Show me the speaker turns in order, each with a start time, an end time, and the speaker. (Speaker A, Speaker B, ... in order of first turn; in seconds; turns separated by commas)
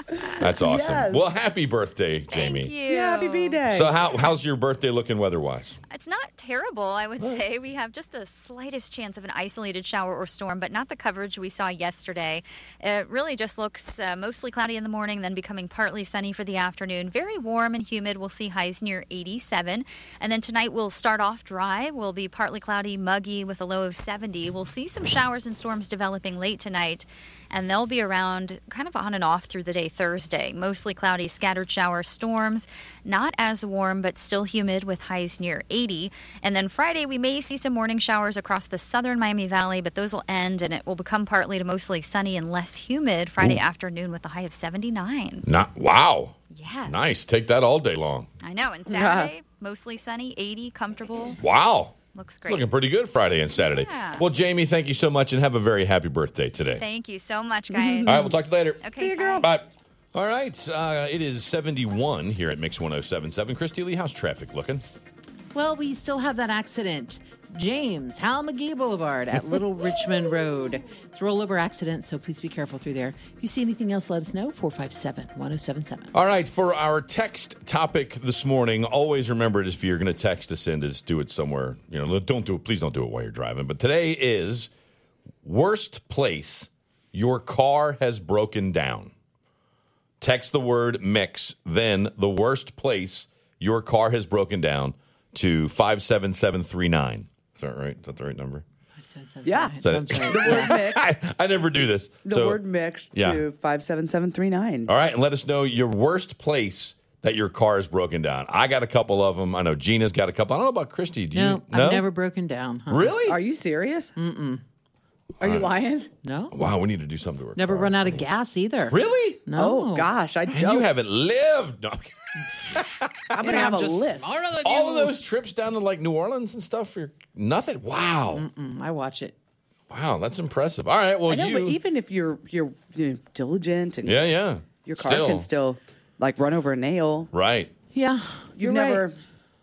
Speaker A: 0.2-1.4, Speaker B: 0.4-2.7, Speaker C: 2.3-3.6, Speaker A: 2.9-3.9, Speaker B: 3.7-5.8, Speaker C: 5.9-45.5, Speaker B: 45.4-46.4, Speaker C: 46.5-47.4, Speaker B: 46.9-48.3, Speaker C: 48.4-51.4, Speaker A: 48.9-49.3, Speaker B: 51.4-52.0, Speaker C: 52.1-52.7, Speaker B: 52.5-56.8, Speaker C: 53.6-54.3, Speaker C: 56.8-58.2, Speaker A: 57.7-58.4, Speaker B: 58.1-58.9, Speaker C: 58.8-59.5, Speaker A: 59.0-59.5, Speaker B: 59.4-64.8, Speaker D: 65.5-76.1, Speaker B: 76.1-84.7, Speaker B: 85.4-89.1, Speaker B: 90.2-98.6, Speaker D: 99.0-100.8, Speaker A: 99.5-101.1, Speaker B: 99.8-102.6, Speaker A: 102.2-104.9, Speaker B: 103.1-103.4, Speaker B: 104.9-112.1, Speaker D: 111.3-113.2, Speaker B: 112.9-113.4, Speaker A: 113.2-114.1, Speaker D: 114.2-114.6, Speaker A: 115.4-116.1, Speaker B: 115.4-115.7, Speaker D: 116.2-116.6, Speaker B: 116.5-118.3, Speaker D: 117.6-120.1, Speaker B: 118.9-119.4, Speaker A: 119.6-120.9, Speaker B: 120.5-123.4, Speaker D: 123.3-125.1, Speaker A: 123.4-124.4, Speaker B: 124.5-128.5, Speaker D: 128.3-129.3, Speaker B: 129.9-131.8, Speaker A: 131.3-134.2, Speaker B: 134.1-135.5, Speaker A: 134.8-137.3, Speaker B: 137.3-137.7, Speaker D: 137.9-139.0, Speaker A: 138.6-139.2